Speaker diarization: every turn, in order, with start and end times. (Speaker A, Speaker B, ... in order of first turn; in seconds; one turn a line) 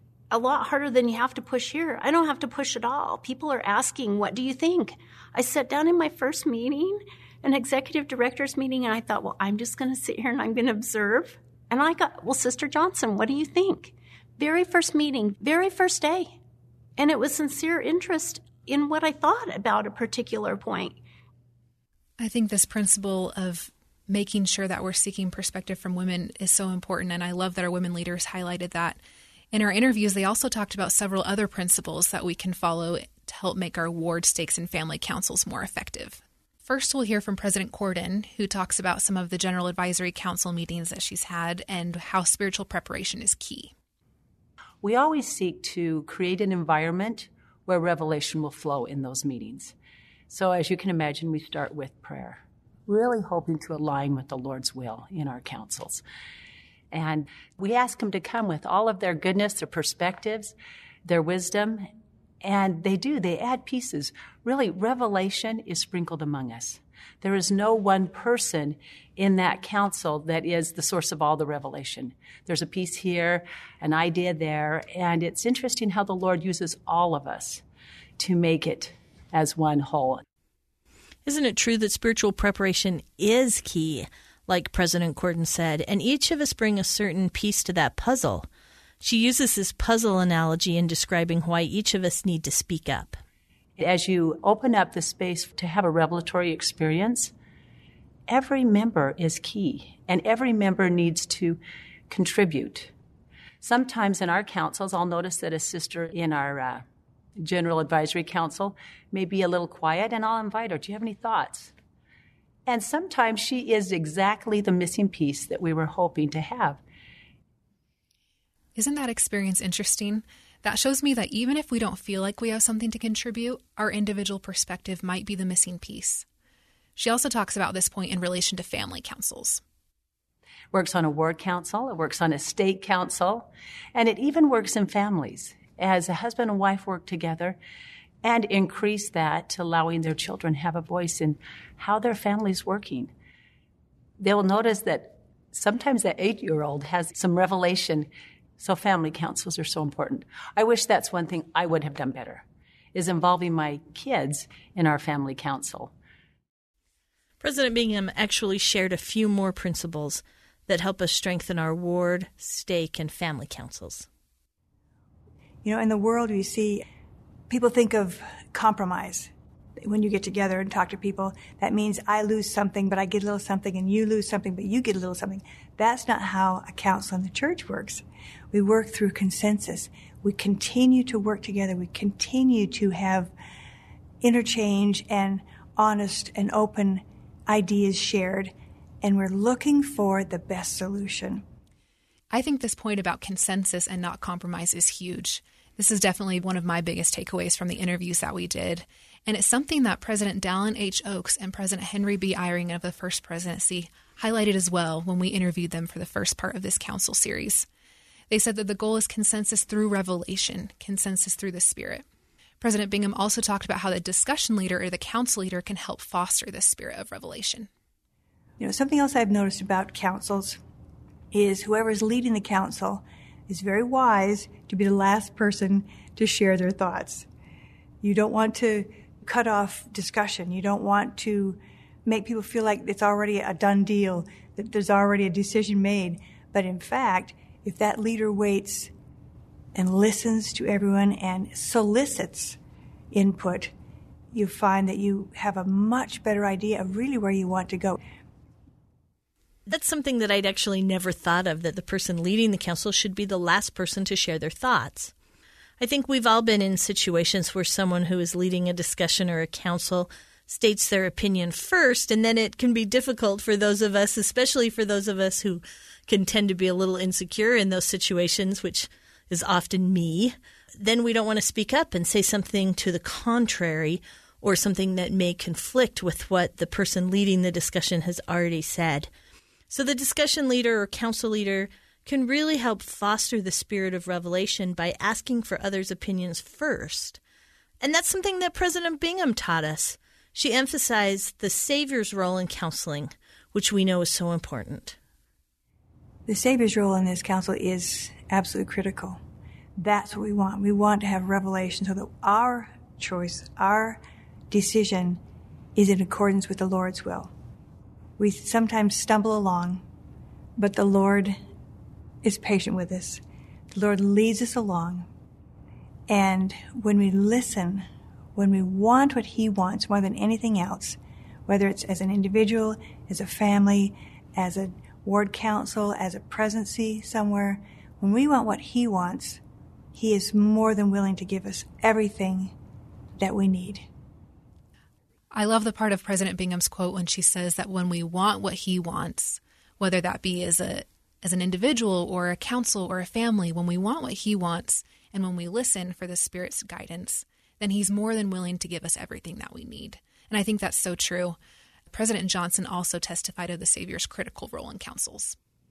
Speaker A: 0.3-16.4
Speaker A: 17.0-21.0
Speaker B: 22.2-29.0
Speaker B: 29.5-43.7
Speaker C: 44.8-49.7
Speaker C: 50.3-56.0
Speaker C: 56.9-60.5
Speaker C: 61.0-61.9
Speaker C: 62.4-77.6
Speaker C: 78.2-80.2
Speaker D: 81.3-88.5
Speaker D: 89.0-93.2
Speaker C: 93.8-97.3
Speaker C: 98.3-102.9
Speaker C: 103.6-106.8
Speaker C: 107.4-111.7
Speaker C: 112.7-116.8
Speaker B: 118.8-126.3
Speaker B: 127.0-129.6
Speaker C: 130.7-137.6
Speaker C: 138.2-143.1
Speaker C: 144.2-155.9
Speaker D: 157.4-164.1
Speaker E: 165.6-166.8
Speaker E: 167.5-169.3
Speaker E: 169.8-183.3
Speaker E: 184.2-191.4
Speaker B: 192.3-207.7
Speaker B: 208.3-212.1
Speaker B: 212.6-217.7
Speaker E: 218.6-220.6
Speaker E: 221.3-227.3
Speaker E: 228.0-238.9
Speaker E: 239.8-242.6
Speaker E: 243.1-243.7
Speaker E: 244.3-248.0
Speaker D: 249.7-255.1
Speaker D: 255.8-279.1
Speaker D: 279.7-287.2
Speaker D: 287.8-295.0
Speaker E: 296.3-299.2
Speaker E: 299.8-304.0
Speaker E: 304.5-305.2
Speaker E: 305.8-307.3
Speaker E: 308.2-309.8
Speaker E: 310.6-311.4
Speaker E: 312.2-313.2
Speaker E: 313.7-315.1
Speaker E: 316.1-329.4
Speaker E: 329.9-332.5
Speaker E: 333.2-333.9
Speaker B: 335.3-351.4
Speaker B: 351.9-355.4